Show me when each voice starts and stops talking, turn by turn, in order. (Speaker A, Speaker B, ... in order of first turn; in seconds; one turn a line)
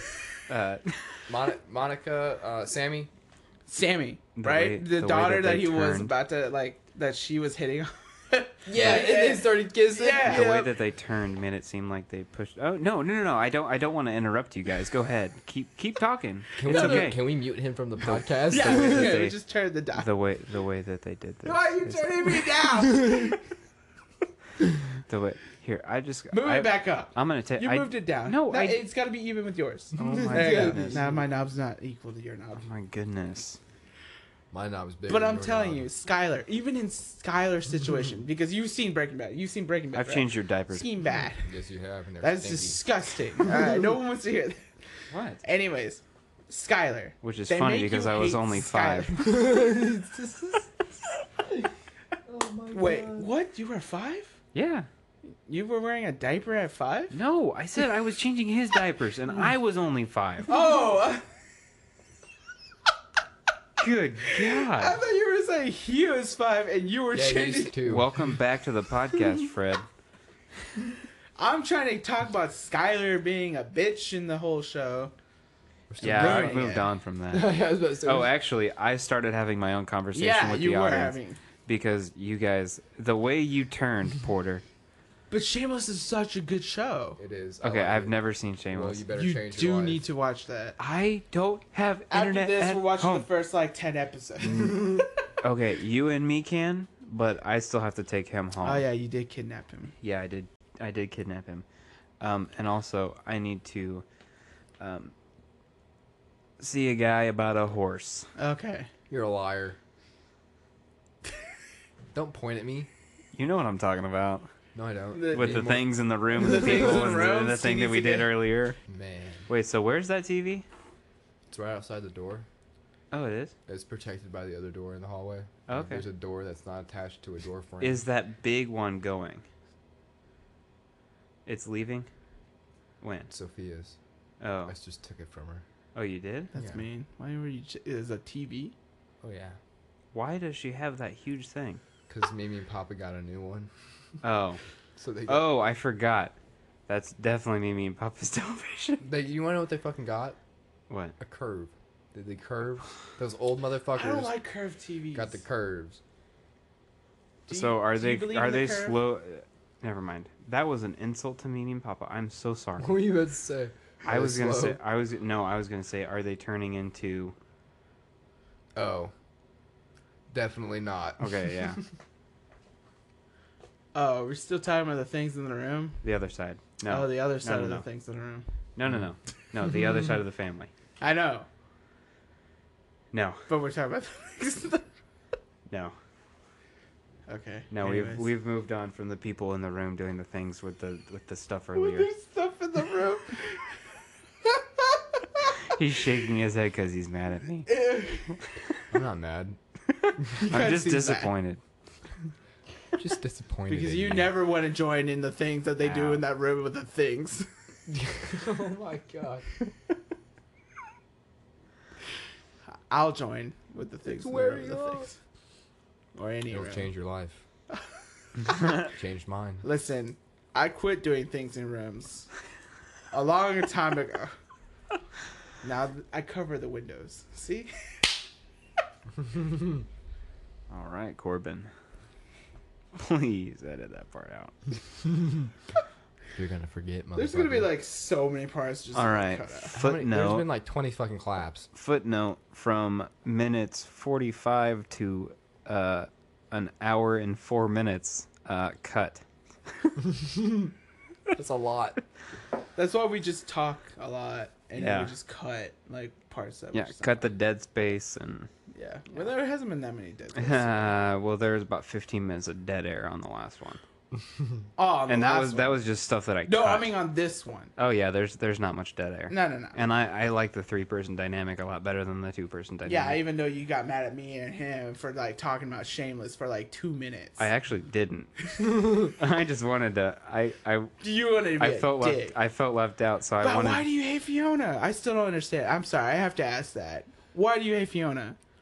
Speaker A: 0.5-1.2
Speaker B: 1.3-3.1
Speaker C: 3.7-10.7
Speaker A: 4.4-6.1
Speaker B: 8.7-10.4
Speaker A: 10.3-17.2
Speaker B: 16.6-19.2
Speaker C: 16.6-17.1
Speaker A: 18.1-19.4
Speaker C: 18.5-20.1
Speaker A: 20.0-22.1
Speaker C: 21.4-23.4
Speaker A: 25.1-28.8
Speaker C: 26.3-32.6
Speaker A: 30.0-31.1
Speaker B: 30.0-31.2
Speaker A: 32.6-33.6
Speaker B: 34.5-35.9
Speaker C: 35.1-41.5
Speaker A: 40.0-40.9
Speaker B: 41.4-42.8
Speaker C: 42.2-44.6
Speaker A: 45.1-45.4
Speaker C: 45.4-49.9
Speaker A: 47.2-49.1
Speaker B: 49.2-50.6
Speaker B: 52.3-53.3
Speaker C: 52.7-54.4
Speaker A: 54.5-54.9
Speaker C: 55.5-57.1
Speaker A: 57.1-60.5
Speaker C: 60.5-61.2
Speaker A: 63.8-65.0
Speaker C: 64.5-67.8
Speaker B: 67.1-68.1
Speaker A: 67.9-69.8
Speaker C: 71.4-75.1
Speaker B: 75.9-76.7
Speaker A: 76.0-84.6
Speaker C: 76.0-76.9
Speaker B: 77.3-78.3
Speaker C: 80.1-81.4
Speaker C: 85.3-87.2
Speaker B: 87.2-90.0
Speaker A: 87.6-89.0
Speaker C: 89.1-90.8
Speaker A: 90.8-93.3
Speaker C: 92.1-95.1
Speaker A: 94.5-98.8
Speaker C: 98.6-100.0
Speaker A: 100.0-101.7
Speaker A: 102.2-104.0
Speaker A: 104.8-105.1
Speaker A: 106.6-108.3
Speaker C: 108.4-108.9
Speaker B: 109.1-109.8
Speaker B: 112.1-112.9
Speaker A: 113.3-114.5
Speaker B: 114.8-117.2
Speaker C: 115.1-118.3
Speaker A: 115.3-118.8
Speaker B: 118.9-119.5
Speaker A: 119.5-120.7
Speaker B: 121.5-122.5
Speaker A: 123.1-123.5
Speaker B: 123.7-128.0
Speaker A: 125.7-126.0
Speaker A: 127.8-129.5
Speaker A: 131.5-132.1
Speaker A: 133.0-133.3
Speaker B: 133.3-134.0
Speaker A: 134.4-134.7
Speaker B: 134.7-135.6
Speaker A: 135.9-136.5
Speaker C: 136.5-138.8
Speaker B: 136.6-136.8
Speaker B: 139.2-139.6
Speaker A: 140.1-141.8
Speaker B: 142.1-143.7
Speaker A: 144.2-144.6
Speaker B: 145.0-145.5
Speaker A: 145.3-146.3
Speaker A: 146.9-149.0
Speaker B: 149.0-150.4
Speaker A: 150.9-151.2
Speaker B: 151.2-154.3
Speaker C: 153.9-155.4
Speaker B: 155.1-156.0
Speaker C: 157.5-159.0
Speaker A: 157.5-162.9
Speaker B: 162.8-164.8
Speaker A: 164.1-167.3
Speaker B: 168.8-169.1
Speaker B: 170.3-171.8
Speaker A: 171.2-171.8
Speaker C: 173.9-176.0
Speaker A: 176.0-177.8
Speaker C: 176.9-178.5
Speaker A: 178.8-180.7
Speaker C: 181.0-181.5
Speaker A: 183.1-183.4
Speaker C: 183.5-184.8
Speaker A: 185.7-185.9
Speaker C: 187.3-188.3
Speaker A: 187.7-192.1
Speaker C: 191.8-193.7
Speaker C: 194.5-195.0
Speaker A: 195.7-197.8
Speaker C: 197.7-198.3
Speaker B: 198.9-199.6
Speaker A: 200.1-201.6
Speaker C: 200.4-201.3
Speaker B: 203.0-204.4
Speaker C: 203.7-207.5
Speaker A: 205.8-206.2
Speaker B: 207.9-209.5
Speaker C: 212.9-215.1
Speaker B: 214.1-215.1
Speaker C: 216.2-216.9
Speaker B: 216.5-217.4
Speaker B: 218.7-219.6
Speaker C: 219.6-222.3
Speaker C: 223.1-224.3
Speaker C: 225.6-228.0
Speaker A: 230.7-231.7
Speaker A: 232.9-234.5
Speaker B: 236.3-237.7
Speaker C: 237.2-239.7
Speaker A: 238.9-240.5
Speaker B: 239.7-241.7
Speaker A: 241.8-249.2
Speaker B: 251.3-252.0
Speaker C: 252.8-257.3
Speaker A: 254.8-255.1
Speaker A: 256.7-258.5
Speaker C: 258.7-261.0
Speaker A: 260.4-263.8
Speaker C: 264.8-265.8
Speaker A: 265.1-266.9
Speaker C: 266.5-267.7
Speaker A: 267.8-273.2
Speaker C: 269.3-269.8
Speaker C: 272.9-277.4
Speaker A: 277.4-280.9
Speaker C: 281.0-282.4
Speaker A: 281.6-283.9
Speaker C: 283.4-288.4